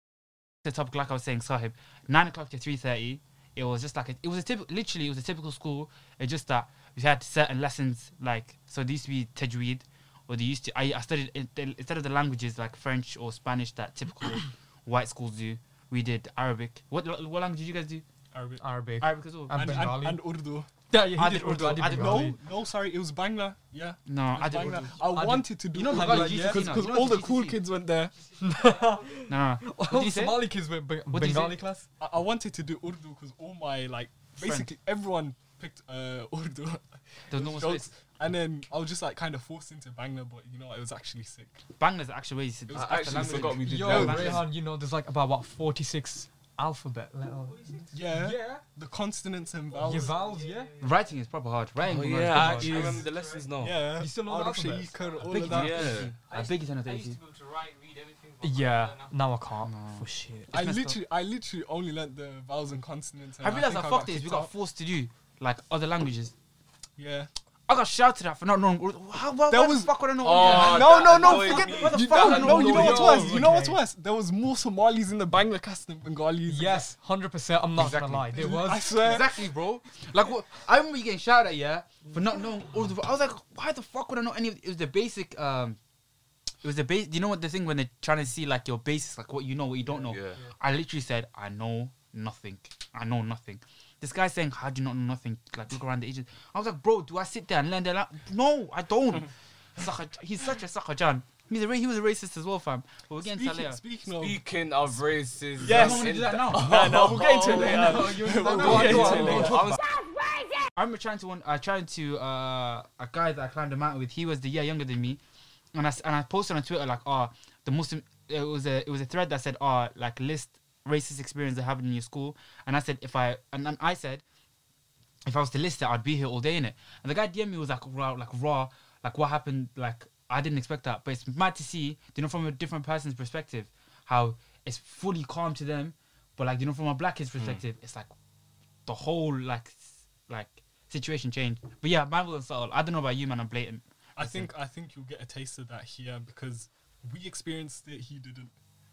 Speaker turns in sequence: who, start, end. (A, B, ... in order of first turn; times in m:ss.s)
0:00.6-0:18.0 A
0:18.3-0:18.6 B
0:18.6-0:20.2 C
0:19.0-0:19.9 A
0:19.5-0:20.7 B
0:20.9-0:22.3 A
0:20.9-0:22.4 C
0:21.8-0:28.1 B
0:24.0-0:25.1 A
0:25.0-0:26.9 C
0:25.7-0:27.6 A
0:28.2-0:29.2 D
0:28.4-0:31.8 C
0:29.3-0:30.5 A
0:31.1-0:31.6 A
0:32.0-0:41.6 B
0:34.4-0:34.7 A
0:37.3-0:37.9 A
0:41.8-0:44.4 A
0:42.7-0:44.5 E
0:42.8-0:44.4 B
0:43.6-0:48.6 C
0:47.4-0:48.6 D
0:47.9-0:50.2 B
0:49.7-0:51.1 D
0:49.8-0:50.7 C
0:50.8-0:53.0 A
0:51.9-0:53.8 E
0:52.3-0:52.8 C
0:52.3-0:53.5 D
0:53.6-0:55.9 B
0:54.0-0:55.6 C
0:55.1-0:59.2 D
0:55.2-0:57.2 A
0:55.4-0:56.2 E
0:58.4-1:00.5 C
0:59.6-1:01.0 A
1:00.5-1:04.5 B
1:03.4-1:06.3 A
1:07.0-1:07.3 B
1:07.7-1:13.8 A
1:09.5-1:16.9 B
1:10.2-1:13.2 E
1:12.0-1:13.7 C
1:16.5-1:18.9 C
1:17.8-1:25.8 A
1:18.3-1:19.4 B
1:26.6-1:43.8 A
1:30.0-1:30.4 E
1:43.2-1:44.4 B
1:44.1-1:49.8 E
1:45.6-1:49.8 B
1:45.6-1:46.8 A
1:47.4-1:49.8 A
1:48.1-1:49.7 C
1:50.7-1:55.2 A
1:55.7-2:04.2 A
2:05.2-2:18.1 A
2:18.8-2:24.5 A
2:24.2-2:28.5 B